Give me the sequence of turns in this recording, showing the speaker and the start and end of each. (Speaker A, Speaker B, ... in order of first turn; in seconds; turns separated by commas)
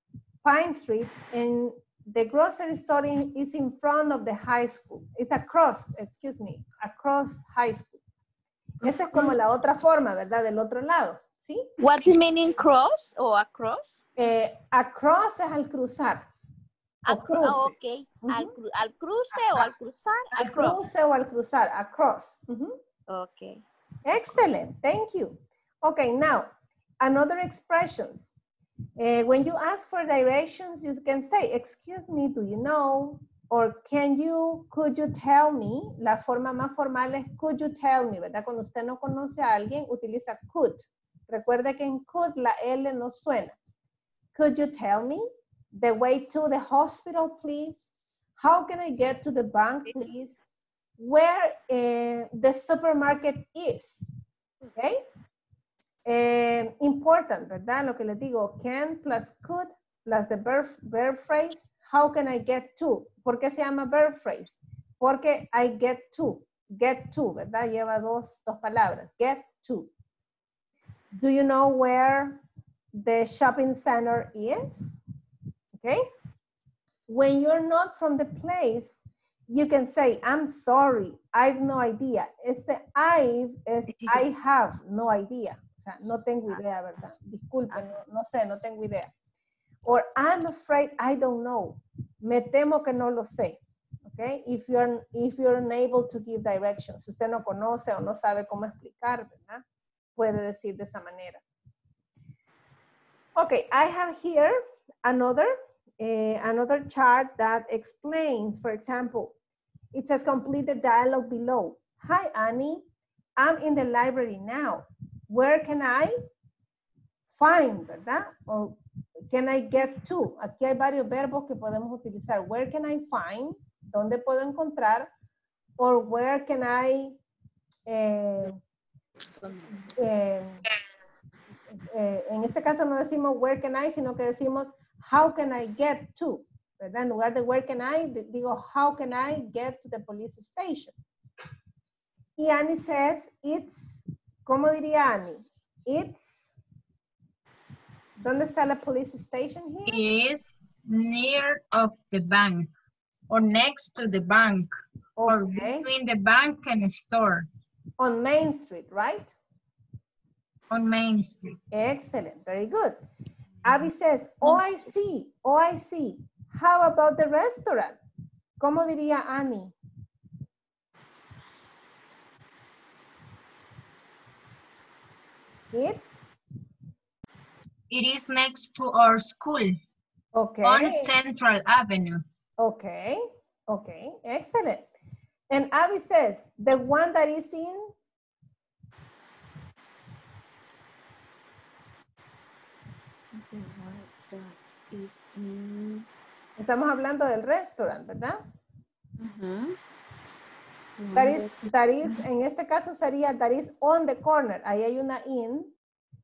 Speaker A: 0.4-8.0, Speaker A: 8.8-11.6, Speaker B: 8.8-9.3, Speaker B: 11.8-14.0, Speaker A: 14.2-16.2, Speaker B: 17.0-20.8, Speaker A: 17.1-18.5, Speaker A: 20.3-22.8, Speaker B: 23.1-23.6, Speaker A: 24.1-26.5, Speaker A: 27.0-28.3, Speaker A: 29.0-43.5, Speaker A: 44.3-54.1, Speaker A: 54.8-55.0, Speaker A: 56.0-69.9, Speaker A: 71.2-72.4, Speaker A: 73.0-75.0, Speaker A: 77.1-89.1, Speaker A: 89.8-99.6, Speaker A: 100.2-101.4, Speaker A: 103.3-109.3, Speaker A: 109.9-112.8, Speaker A: 113.4-116.2, Speaker A: 117.3-118.8, Speaker A: 119.3-125.1, Speaker A: 125.8-127.2, Speaker A: 127.9-128.6, Speaker B: 129.4-129.6, Speaker A: 129.8-130.6, Speaker A: 131.9-140.9, Speaker A: 142.4-146.6, Speaker A: 148.2-150.0, Speaker C: 149.9-152.7, Speaker C: 153.3-154.7, Speaker A: 155.2-155.9, Speaker C: 155.3-157.5, Speaker A: 158.0-159.3, Speaker C: 160.7-161.6, Speaker A: 161.7-163.0, Speaker A: 163.6-168.0, Speaker A: 168.6-169.7, Speaker A: 175.7-176.3, Speaker C: 177.9-179.8, Speaker A: 180.3-181.1, Speaker C: 180.6-182.2, Speaker A: 182.6-184.9, Speaker A: 185.5-187.9, Speaker B: 193.3-196.0, Speaker A: 196.6-198.4, Speaker B: 199.2-199.8, Speaker B: 201.0-202.1, Speaker A: 201.1-205.7